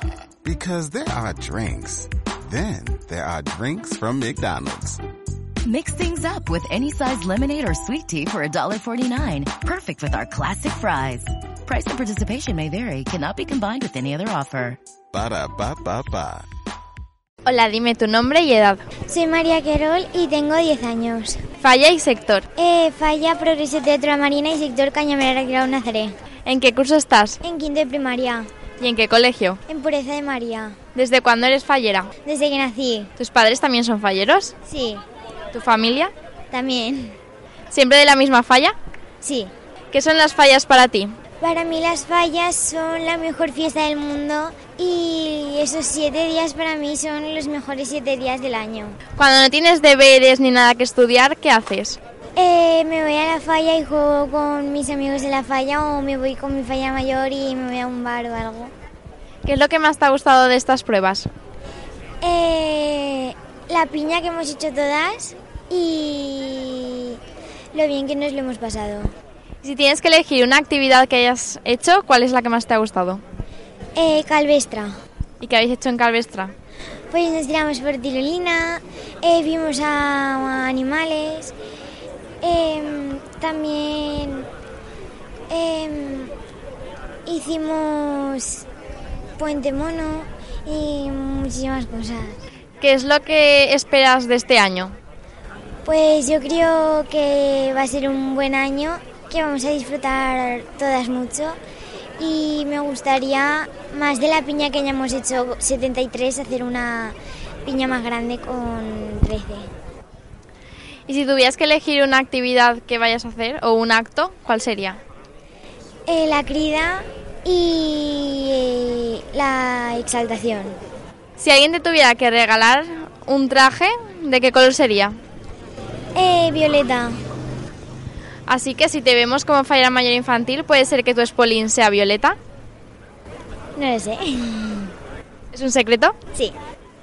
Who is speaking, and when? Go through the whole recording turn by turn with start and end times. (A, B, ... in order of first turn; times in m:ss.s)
0:00.4-0:05.0 A
0:05.6-0:14.8 B
0:15.1-0:16.5 A
0:17.5-0:18.8 C
0:19.1-0:21.4 D
0:21.6-0:22.4 C
0:22.6-0:26.1 D
0:26.5-0:27.4 C
0:27.4-0:28.5 D
0:28.8-0:29.6 C
0:29.7-0:30.8 D
0:31.0-0:32.1 C
0:32.2-0:33.1 D
0:33.2-0:34.5 C
0:34.7-0:35.0 D
0:35.5-0:36.1 C
0:36.5-0:37.2 D
0:37.7-0:38.8 C
0:39.2-0:39.5 D
0:39.9-0:41.2 C
0:41.4-0:49.0 D
0:49.2-0:52.0 C
0:52.4-0:58.7 D
0:59.4-1:01.3 C
1:02.2-1:07.2 D
1:07.7-1:09.1 D
1:09.6-1:13.2 C
1:14.0-1:14.9 D
1:15.4-1:16.5 C
1:17.1-1:21.5 D
1:22.4-1:24.5 D
1:25.5-1:26.3 D
1:27.3-1:28.6 D
1:29.4-1:32.4 D
1:32.8-1:34.9 C
1:35.8-1:41.6 D
1:42.2-1:49.7 D
1:51.1-1:55.0 C
1:56.1-2:00.8 D
2:01.4-2:05.2 C
2:06.2-2:07.2 D
2:08.5-2:12.4 C
2:13.8-2:14.9 D
2:15.5-2:16.2 C